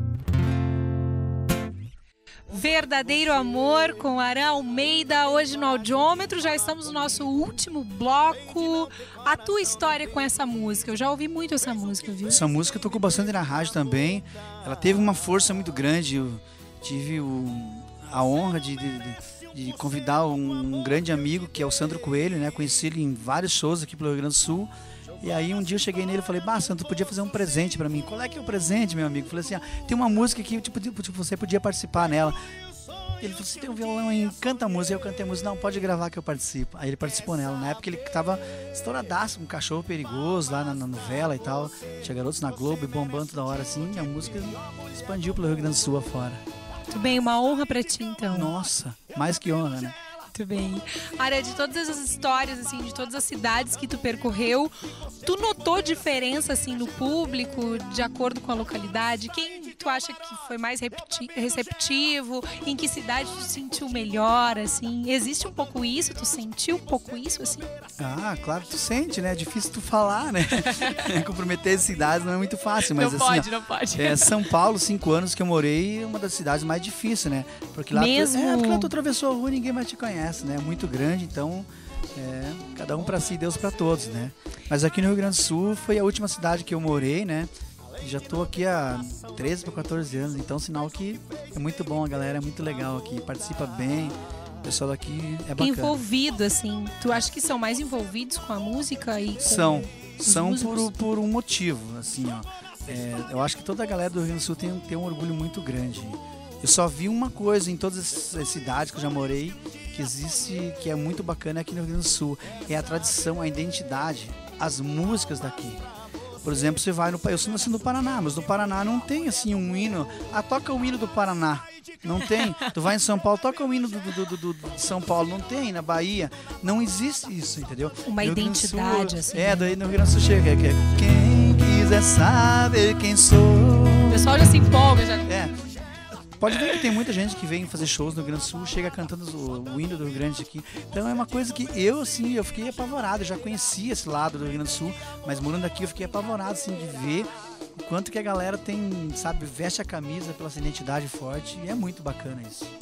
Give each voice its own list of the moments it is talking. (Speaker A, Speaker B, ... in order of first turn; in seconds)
Speaker A: 2.5-12.4, 46.9-48.5, 50.3-67.7, 70.8-71.0, 72.9-74.4, 77.9-78.9, 95.6-100.9, 128.1-129.7, 134.1-135.3
Speaker B: 12.3-32.4, 33.2-46.4, 48.3-50.0, 68.0-96.0, 99.4-115.8, 116.4-134.4, 135.3-135.6, 136.3-152.7